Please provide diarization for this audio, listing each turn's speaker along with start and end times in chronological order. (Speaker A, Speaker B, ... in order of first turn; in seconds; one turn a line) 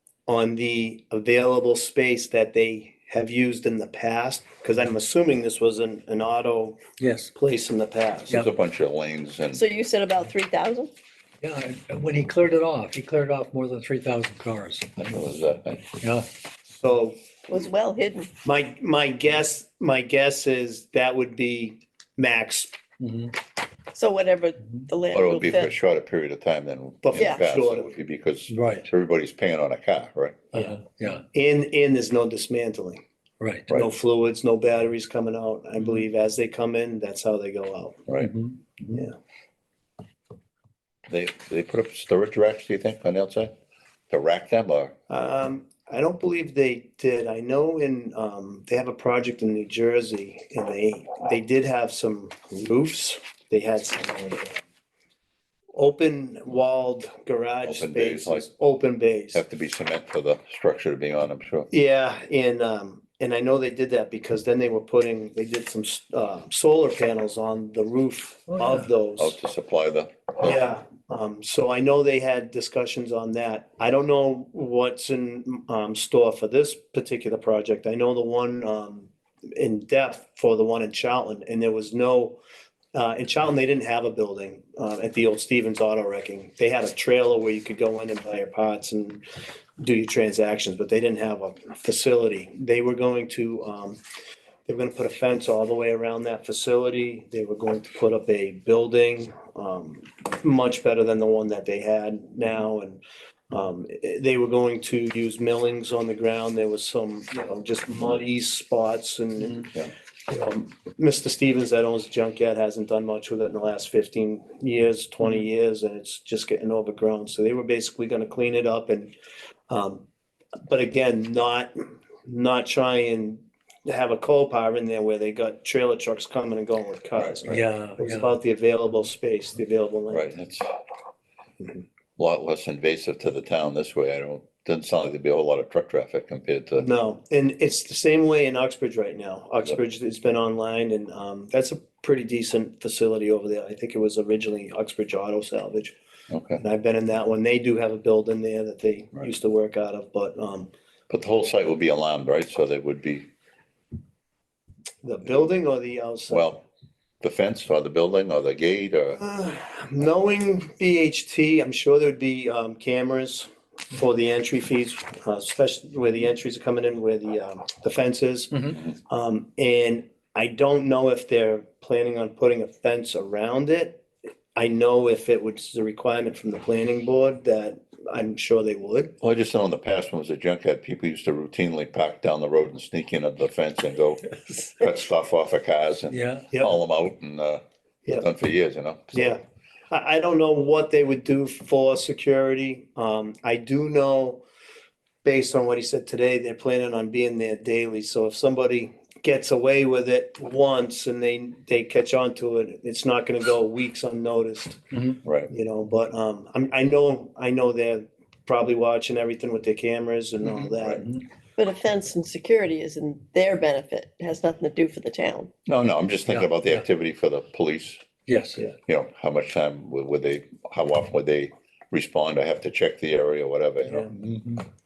Speaker A: 0.3-6.8
Speaker B: 7.0-7.3
Speaker A: 7.3-8.4
Speaker C: 8.3-9.7
Speaker D: 9.5-10.9
Speaker B: 11.4-15.2
Speaker C: 15.0-15.9
Speaker B: 15.9-16.3
Speaker A: 16.7-17.1
Speaker D: 17.5-18.3
Speaker A: 18.4-22.7
Speaker B: 23.0-23.3
Speaker D: 23.9-25.7
Speaker C: 25.1-30.5
Speaker A: 27.0-27.9
Speaker D: 27.1-27.4
Speaker B: 28.5-28.9
Speaker B: 30.5-31.2
Speaker A: 31.3-33.0
Speaker B: 33.4-33.7
Speaker A: 33.7-38.0
Speaker B: 38.2-39.0
Speaker C: 41.1-43.5
Speaker C: 44.1-44.9
Speaker A: 45.1-54.6
Speaker A: 55.7-59.4
Speaker C: 57.6-58.5
Speaker C: 59.3-61.7
Speaker A: 61.7-69.3
Speaker B: 68.6-68.8
Speaker C: 69.2-70.6
Speaker A: 70.4-82.4
Speaker A: 82.9-89.2
Speaker A: 89.8-94.0
Speaker A: 94.7-119.1
Speaker A: 119.7-120.0
Speaker A: 120.7-121.7
Speaker A: 122.2-130.3
Speaker B: 127.5-128.3
Speaker C: 130.1-130.8
Speaker C: 132.2-136.9
Speaker A: 136.8-145.9
Speaker C: 146.3-146.6
Speaker A: 146.6-150.7
Speaker C: 151.1-153.2
Speaker A: 155.0-156.5
Speaker C: 156.3-156.6
Speaker C: 157.2-159.2
Speaker A: 159.2-174.0
Speaker A: 174.6-179.1
Speaker C: 179.2-187.6
Speaker B: 186.1-186.6
Speaker C: 188.2-189.1
Speaker A: 189.1-194.4
Speaker A: 195.2-204.8
Speaker B: 204.9-205.2
Speaker C: 205.2-205.5
Speaker A: 205.5-211.1
Speaker B: 210.5-211.2
Speaker D: 211.6-215.5
Speaker C: 215.7-218.0
Speaker B: 216.3-216.8
Speaker B: 218.3-218.7
Speaker C: 218.8-224.0
Speaker A: 223.8-224.1
Speaker B: 224.0-224.6